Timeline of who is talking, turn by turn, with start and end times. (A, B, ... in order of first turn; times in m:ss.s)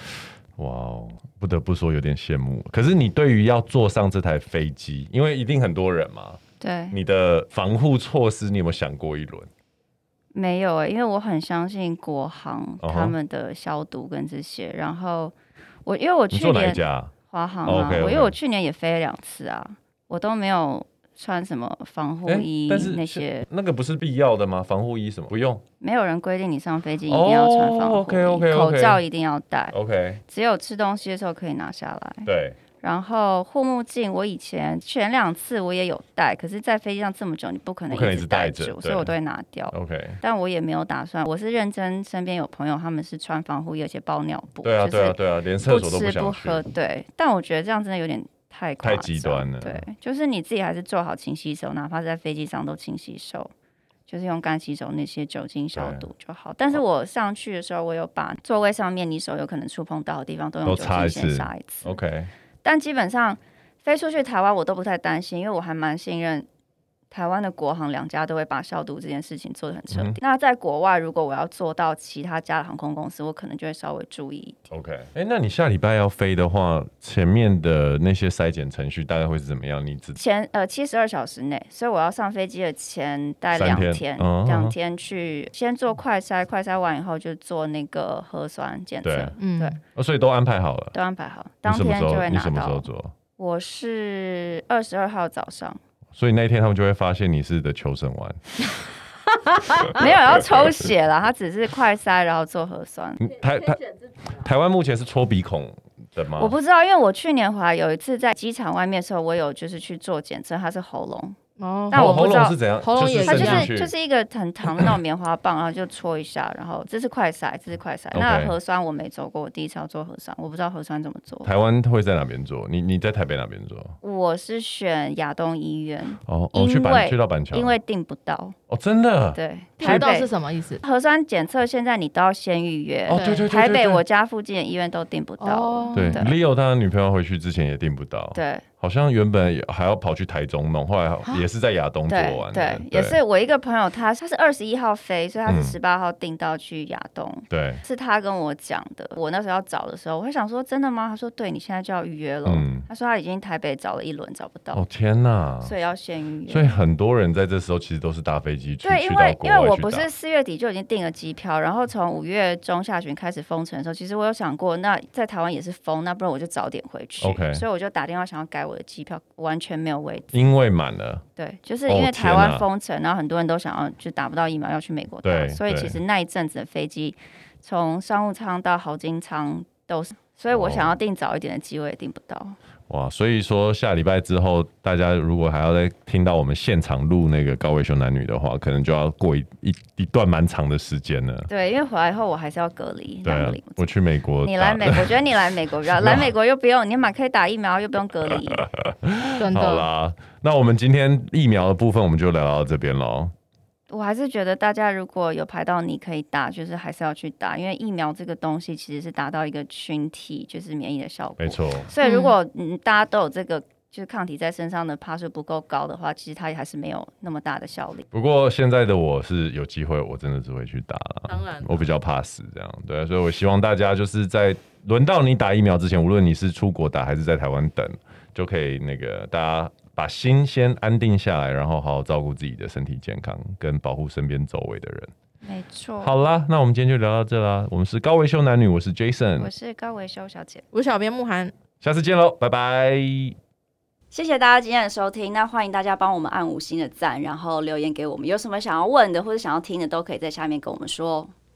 0:00.6-0:06.4 A
0:06.6-0:07.0 B
0:06.9-0:09.5 A
0:10.3-0:15.3 B
0:12.8-0:13.2 A
0:15.8-0:23.5 B
0:16.3-0:17.1 A
0:17.6-0:18.3 A
0:22.2-0:25.6 A
0:25.8-0:29.7 B
0:27.1-0:29.0 A
0:29.7-0:30.2 A
0:30.3-0:32.3 B
0:32.2-0:32.6 A
0:32.8-0:53.5 B
0:37.9-0:39.1 A
0:39.7-0:40.2 A
0:44.6-0:46.6 A
0:48.8-0:49.8 A
0:54.1-1:02.0 B
0:55.7-0:56.1 A
1:00.6-1:02.3 A
1:02.6-1:06.5 B
1:07.1-1:14.6 B
1:09.9-1:10.2 A
1:14.7-1:20.2 A
1:20.2-1:29.8 B
1:23.5-1:24.7 A
1:29.0-1:29.3 A
1:29.4-1:29.8 C
1:29.9-1:30.9 A
1:30.9-1:32.9 B
1:31.6-1:33.1 A
1:33.4-1:35.8 B
1:36.1-1:38.4 A
1:39.5-1:39.9 C
1:39.8-1:40.9 A
1:39.8-1:43.2 B
1:43.2-1:46.5 A
1:46.4-1:51.4 B
1:51.6-1:53.7 C
1:51.9-1:52.6 B
1:51.9-1:53.9 A
1:53.2-2:01.5 B
1:58.1-1:58.5 A
2:01.4-2:03.9 A
2:04.0-2:08.6 B
2:06.2-2:07.8 A
2:08.7-2:10.1 A
2:09.3-2:10.3 B
2:09.8-2:10.8 C
2:10.8-2:16.3 B
2:13.1-2:14.0 A
2:13.1-2:13.5 C
2:15.4-2:16.2 C
2:15.9-2:23.2 A
2:18.3-2:18.6 B
2:22.1-2:34.8 B
2:25.4-2:25.8 A
2:27.5-2:27.8 A
2:32.4-2:32.8 A
2:34.7-2:35.7 A
2:35.6-2:36.8 B
2:36.5-2:40.1 A
2:38.8-2:50.5 B
2:47.2-2:47.6 A
2:50.3-2:51.2 A
2:51.4-3:02.6 B
2:51.9-2:52.6 A
2:55.2-2:56.0 A
3:00.5-3:00.9 A
3:02.9-3:11.5 A
3:11.5-3:13.9 B
3:13.2-3:15.1 A
3:14.4-3:18.6 B
3:15.9-3:16.3 A
3:18.3-3:23.3 A
3:19.4-3:19.9 C
3:23.9-3:38.0 B
3:31.4-3:31.9 A
3:32.0-3:32.3 C
3:38.1-3:55.1 A
3:41.3-3:41.9 C
3:55.4-3:56.1 B
3:56.0-3:59.5 A
3:59.4-4:00.6 B
4:00.7-4:01.5 C
4:01.8-4:03.4 A
4:04.1-4:11.3 B